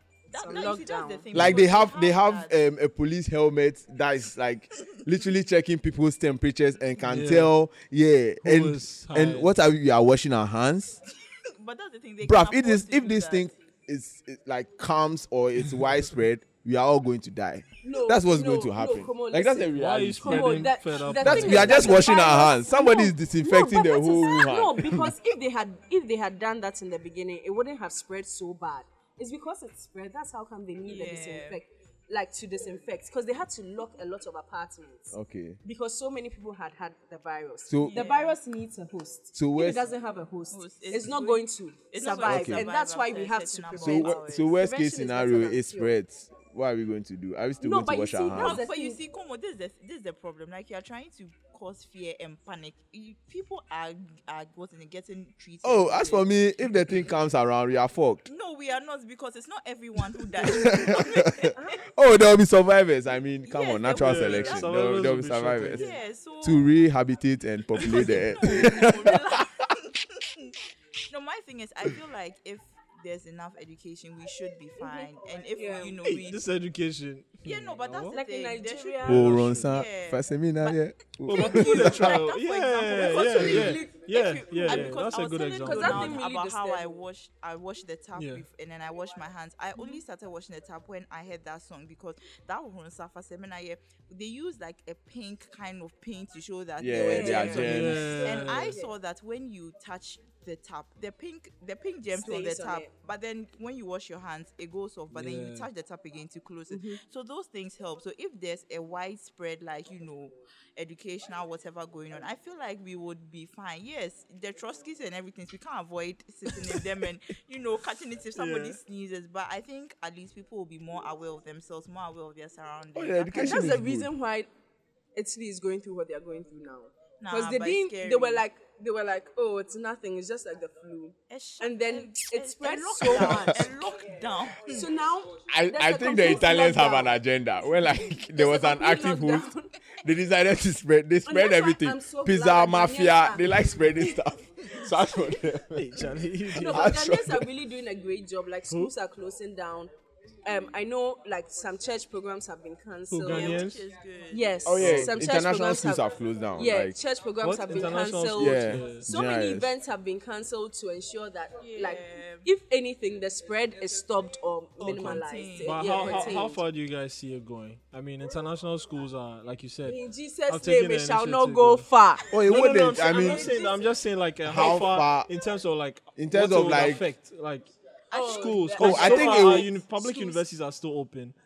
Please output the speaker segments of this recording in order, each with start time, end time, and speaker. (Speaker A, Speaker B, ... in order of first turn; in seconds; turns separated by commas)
Speaker A: 0.3-2.5, Speaker B: 0.3-1.3, Speaker C: 1.3-11.0, Speaker D: 7.0-7.5, Speaker D: 8.4-9.5, Speaker A: 11.6-13.6, Speaker C: 12.2-25.1, Speaker B: 17.8-46.0, Speaker D: 19.8-22.1, Speaker A: 22.1-22.3, Speaker A: 30.9-31.6, Speaker C: 35.1-35.6, Speaker C: 37.7-38.1, Speaker A: 37.8-38.4, Speaker C: 39.4-39.8, Speaker A: 40.5-44.5, Speaker C: 42.2-42.7, Speaker C: 43.8-48.6, Speaker B: 47.6-49.0, Speaker A: 48.3-56.3, Speaker C: 55.6-58.2, Speaker A: 58.2-61.5, Speaker C: 60.4-69.7, Speaker B: 61.5-61.8, Speaker A: 63.5-65.0, Speaker D: 63.9-66.0, Speaker A: 65.7-66.7, Speaker A: 67.8-70.6, Speaker A: 71.1-76.4, Speaker B: 74.8-76.0, Speaker D: 76.0-78.2, Speaker A: 77.4-80.8, Speaker B: 78.1-79.4, Speaker C: 79.0-82.2, Speaker D: 79.1-79.7, Speaker D: 81.2-86.2, Speaker A: 81.3-123.8, Speaker B: 83.2-87.0, Speaker D: 88.2-88.4, Speaker C: 96.8-98.1, Speaker B: 97.0-98.9, Speaker D: 97.3-98.8, Speaker B: 102.1-102.9, Speaker D: 105.1-105.7, Speaker B: 106.7-107.0, Speaker D: 118.4-118.8, Speaker C: 122.9-124.1, Speaker B: 123.3-124.5, Speaker B: 125.2-133.7, Speaker A: 127.2-128.4, Speaker A: 131.3-134.9, Speaker C: 133.2-133.7, Speaker B: 134.7-137.2, Speaker C: 135.5-139.5, Speaker B: 138.3-139.7, Speaker C: 140.0-146.1, Speaker B: 141.2-144.2, Speaker D: 145.8-147.0, Speaker B: 146.5-149.9, Speaker C: 146.7-147.5, Speaker B: 150.4-153.7, Speaker D: 153.1-153.8, Speaker A: 153.2-154.8, Speaker B: 154.3-166.6, Speaker C: 154.7-157.0, Speaker D: 154.8-155.2, Speaker D: 157.4-159.1, Speaker C: 158.3-159.7, Speaker A: 161.6-162.5, Speaker A: 164.8-166.4, Speaker D: 164.8-171.9, Speaker B: 169.9-172.3, Speaker C: 172.3-173.6, Speaker D: 172.4-181.3, Speaker B: 173.0-173.8, Speaker C: 174.4-175.3, Speaker C: 176.2-177.1, Speaker A: 178.1-179.5, Speaker B: 178.1-180.4, Speaker C: 178.8-179.7